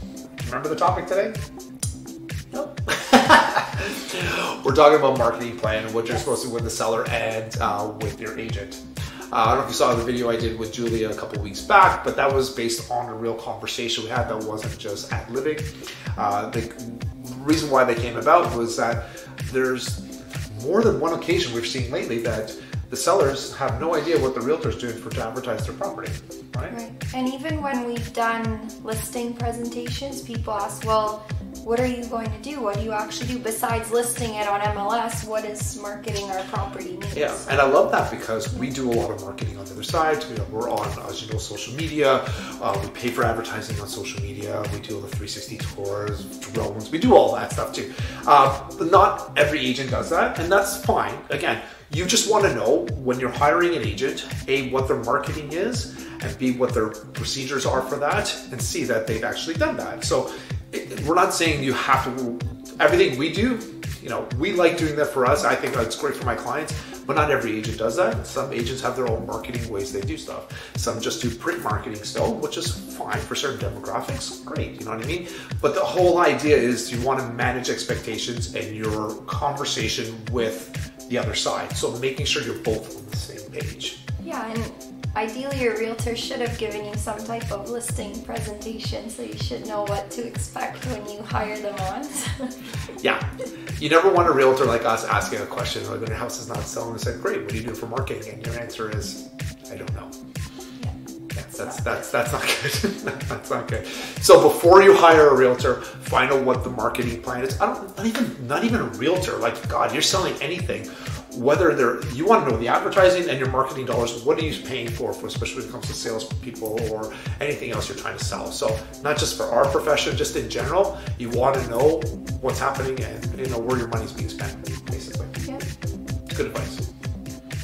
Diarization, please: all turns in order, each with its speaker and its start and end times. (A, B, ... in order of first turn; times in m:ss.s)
0:00.4-0:01.4 A
0:02.9-0:26.8 A
0:26.7-0:37.6 B
0:37.1-1:24.0 A
1:24.2-1:32.5 B
1:33.0-1:33.2 A
1:33.8-1:40.1 A
1:41.4-2:05.5 A
1:41.6-1:42.0 B
2:06.3-2:06.8 A